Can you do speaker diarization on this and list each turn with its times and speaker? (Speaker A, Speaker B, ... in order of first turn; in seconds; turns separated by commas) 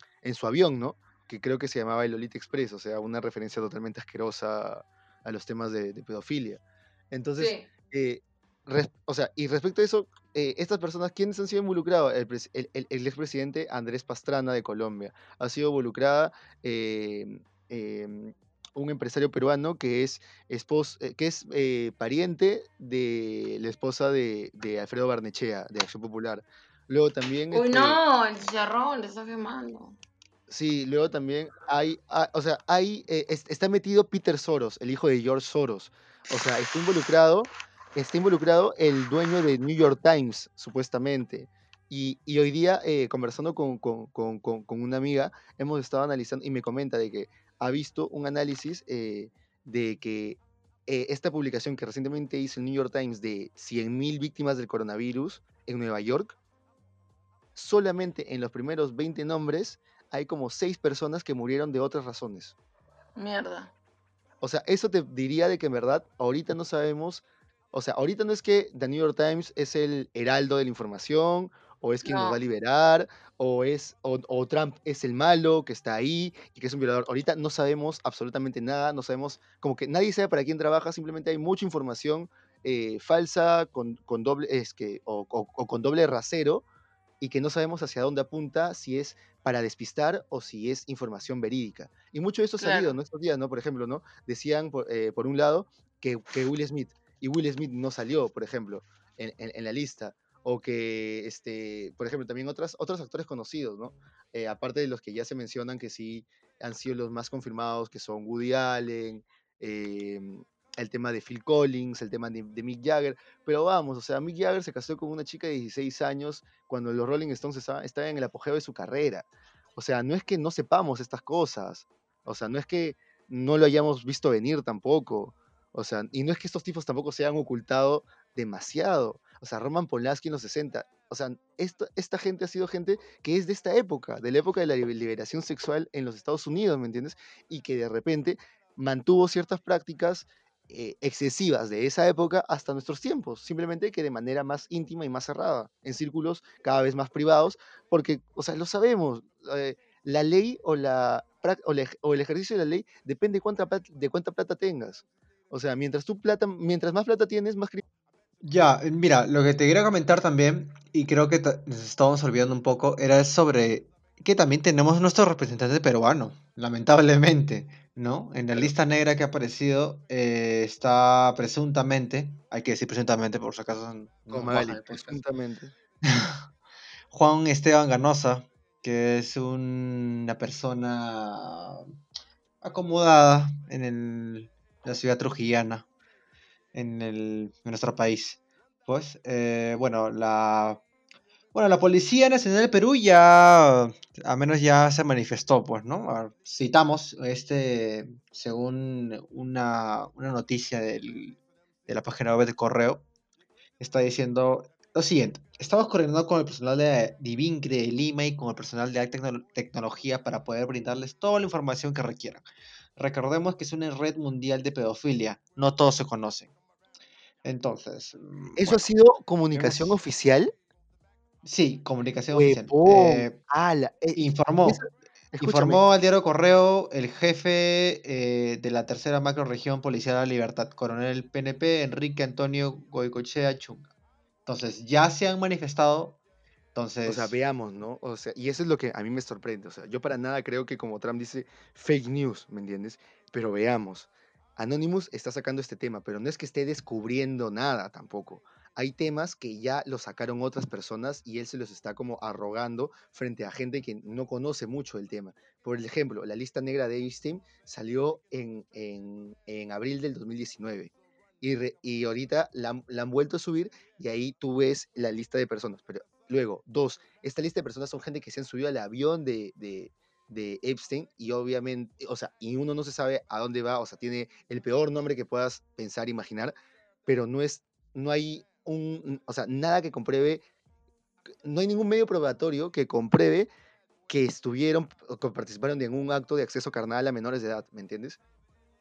Speaker A: 0.2-28.0, Speaker B: 7.4-7.7, Speaker B: 27.5-30.0, Speaker A: 30.5-56.4, Speaker A: 57.5-62.5, Speaker B: 63.1-63.7, Speaker A: 64.4-86.6, Speaker B: 72.0-72.4, Speaker A: 87.2-157.8, Speaker B: 92.6-93.0, Speaker C: 158.4-175.2, Speaker A: 174.3-175.7, Speaker C: 176.0-176.4, Speaker C: 177.1-181.9, Speaker C: 182.6-185.9, Speaker C: 186.7-190.8, Speaker C: 191.5-203.1, Speaker C: 203.8-212.4, Speaker C: 213.0-216.5, Speaker C: 217.4-218.8, Speaker A: 218.6-220.5, Speaker C: 219.5-219.9, Speaker C: 221.4-223.4, Speaker A: 222.3-225.8, Speaker C: 224.1-224.8, Speaker C: 225.4-233.9, Speaker C: 234.4-236.2, Speaker C: 236.7-237.4, Speaker A: 237.1-276.5, Speaker A: 277.1-280.4, Speaker A: 281.4-283.5, Speaker A: 284.1-288.2